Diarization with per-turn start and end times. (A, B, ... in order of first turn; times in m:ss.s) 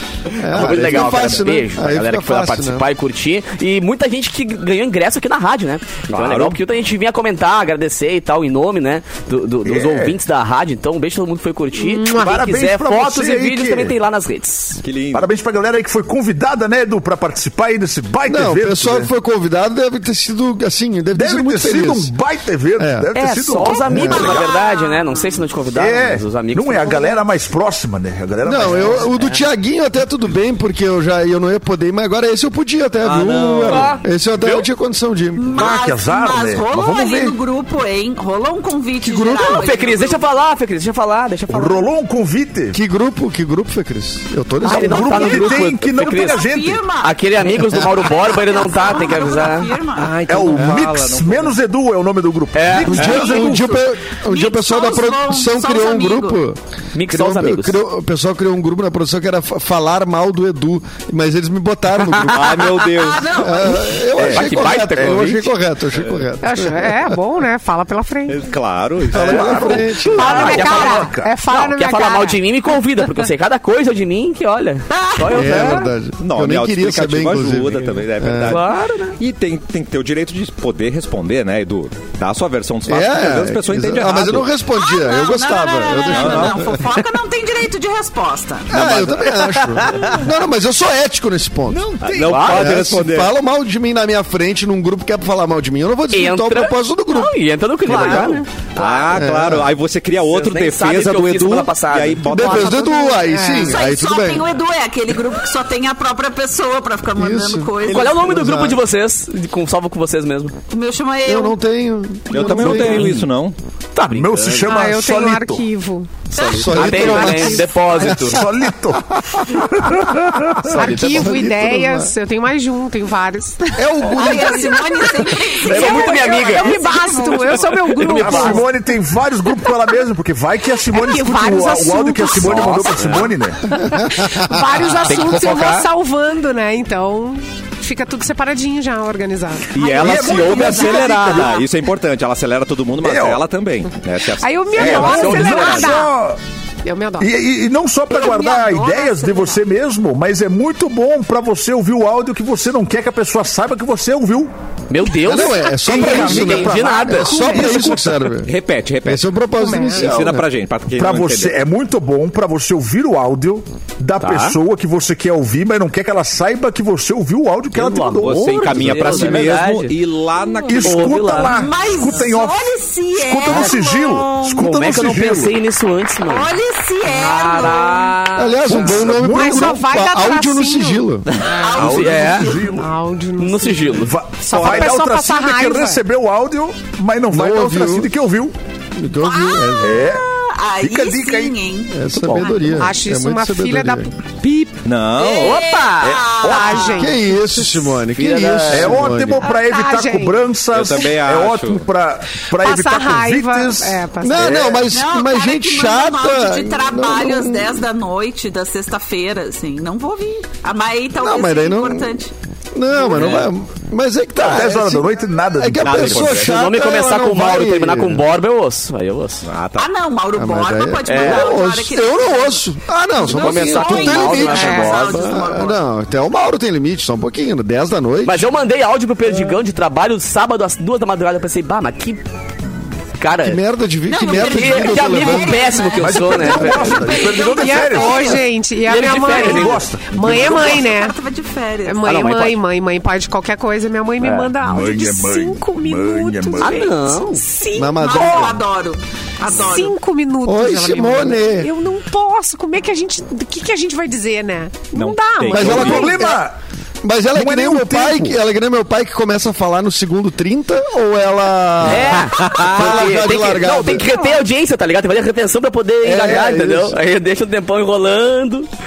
0:00.4-0:02.8 A
0:00.4-0:14.8 B
0:00.7-0:01.1 C
0:06.1-0:06.6 C
0:09.6-0:10.2 D
0:11.8-0:12.3 E
0:12.2-0:14.0 D
0:14.8-0:15.3 C
0:15.1-0:19.1 D
0:18.2-0:22.1 A
0:21.1-0:24.4 D
0:22.8-0:23.1 A
0:23.1-0:27.2 B
0:23.9-0:25.4 F
0:23.9-0:24.4 A
0:25.7-0:29.1 D
0:28.4-0:35.5 A
0:28.6-0:29.4 B
0:33.0-0:34.0 C
0:33.7-0:34.7 B
0:35.4-0:40.2 F
0:35.5-0:37.4 D
0:39.0-0:39.6 A
0:39.4-0:41.9 B
0:41.5-0:42.8 D
0:42.7-0:45.5 A
0:44.6-0:49.7 B
0:44.7-0:46.8 D
0:46.1-0:47.2 F
0:47.7-0:50.1 F
0:49.9-0:51.5 C
0:50.3-0:53.8 D
0:52.6-0:53.1 B
0:52.9-1:07.2 A
0:53.0-0:56.4 F
0:56.9-0:57.8 B
1:02.2-1:02.7 B
1:02.2-1:03.4 C
1:03.0-1:03.9 F
1:04.2-1:05.3 D
1:04.2-1:05.5 B
1:06.4-1:08.4 E
1:08.3-1:09.8 C
1:09.1-1:11.3 D
1:09.1-1:10.5 A
1:10.0-1:15.9 B
1:10.2-1:12.4 E
1:14.9-1:15.7 F
1:15.3-1:18.6 A
1:16.2-1:24.5 C
1:18.5-1:19.2 B
1:22.9-1:27.0 A
1:24.8-1:28.7 F
1:26.1-1:26.6 C
1:28.7-1:31.9 A
1:28.7-1:30.1 B
1:31.7-1:32.5 D
1:32.0-1:33.3 C
1:32.2-1:32.8 B
1:32.4-1:37.3 A
1:36.1-1:39.1 B
1:37.9-1:38.3 A
1:37.9-1:38.4 E
1:38.8-1:42.9 C
1:39.1-1:39.7 A
1:40.3-1:43.0 B
1:42.3-1:44.5 A
1:42.5-1:43.8 E
1:43.4-1:48.2 F
1:47.2-1:48.8 A
1:47.8-1:50.6 B
1:50.7-1:51.6 F
1:51.2-1:53.3 A
1:52.3-1:53.6 C
1:52.6-1:53.1 B
1:54.0-1:54.7 B
1:54.1-1:55.6 D
1:54.6-1:56.1 E
1:56.3-1:58.4 B
1:56.4-1:56.8 F
1:56.5-1:58.4 A
1:56.7-1:57.8 E
1:57.9-2:00.7 D
2:00.7-2:01.4 B
2:00.7-2:08.7 E
2:00.8-2:02.1 A
2:03.8-2:05.3 A
2:04.1-2:07.9 F
2:05.6-2:06.8 B
2:07.9-2:08.7 B
2:08.1-2:13.7 D
2:10.9-2:12.8 E
2:12.4-2:13.2 B
2:13.7-2:19.7 E
2:14.0-2:14.5 A
2:15.0-2:15.9 B
2:19.7-2:25.4 C
2:19.8-2:21.6 F
2:19.9-2:21.6 D
2:23.0-2:23.4 D
2:24.4-2:26.1 E
2:24.7-2:26.4 D
2:24.8-2:26.0 B
2:26.8-2:27.3 E
2:27.2-2:34.5 D
2:28.1-2:29.6 F
2:34.9-2:37.9 B
2:35.2-2:40.4 A
2:35.8-2:37.9 D
2:37.3-2:37.6 E
2:38.4-2:41.6 C
2:39.6-2:40.3 E
2:40.9-2:49.4 D
2:44.2-2:44.6 B
2:47.7-2:49.9 B
2:48.2-2:51.3 C
2:50.7-2:55.6 D
2:50.8-2:51.6 B
2:51.4-2:54.4 F
2:54.4-2:56.5 B
2:56.2-2:58.2 F
2:57.1-2:59.0 C
2:57.7-2:58.2 B
2:58.4-3:01.3 A
2:58.7-2:59.8 D
2:59.3-3:06.0 E
3:01.5-3:02.7 F
3:01.8-3:02.9 D
3:01.8-3:02.6 B
3:03.4-3:04.1 B
3:04.0-3:08.6 D
3:04.5-3:04.9 C
3:07.3-3:08.1 A
3:09.0-3:10.0 A
3:09.2-3:11.9 F
3:09.8-3:10.2 D
3:10.8-3:11.6 D
3:11.9-3:14.1 A
3:12.1-3:12.8 B
3:12.3-3:14.1 E
3:14.4-3:15.6 C
3:15.2-3:17.1 F
3:15.4-3:16.2 B
3:16.0-3:17.1 D
3:16.4-3:18.0 E
3:17.0-3:19.5 A
3:18.1-3:19.1 B
3:18.7-3:24.9 D
3:19.4-3:20.4 E
3:20.7-3:21.9 C
3:22.6-3:24.7 E
3:24.2-3:27.8 A
3:24.9-3:32.3 F
3:31.2-3:32.2 A
3:32.7-3:38.2 A
3:33.1-3:33.5 B
3:33.1-3:33.5 C
3:34.4-3:36.4 D
3:35.8-3:36.4 C
3:36.2-3:39.4 B
3:39.4-3:39.9 C
3:39.8-3:45.8 F
3:40.4-3:48.5 A
3:41.1-3:41.6 B
3:43.2-3:45.4 B
3:44.5-3:45.1 E
3:48.2-3:52.2 B
3:53.2-3:53.6 B
3:53.4-3:55.7 A
3:54.1-3:58.4 F
3:54.3-3:57.2 B
3:55.9-3:58.5 D
3:57.6-4:01.1 E
3:58.9-3:59.8 B
3:59.0-4:00.8 D
4:00.2-4:02.1 F
4:01.9-4:08.6 E
4:02.0-4:02.6 B
4:04.2-4:04.5 B
4:04.6-4:07.0 D
4:06.6-4:07.4 B
4:07.7-4:08.6 A
4:08.0-4:10.0 F
4:09.4-4:16.2 E
4:10.4-4:11.7 A
4:14.9-4:16.2 C
4:15.5-4:16.4 A
4:15.6-4:16.6 D
4:17.0-4:24.2 A
4:17.3-4:18.4 D
4:21.8-4:28.7 B
4:22.4-4:22.9 C
4:26.0-4:27.0 A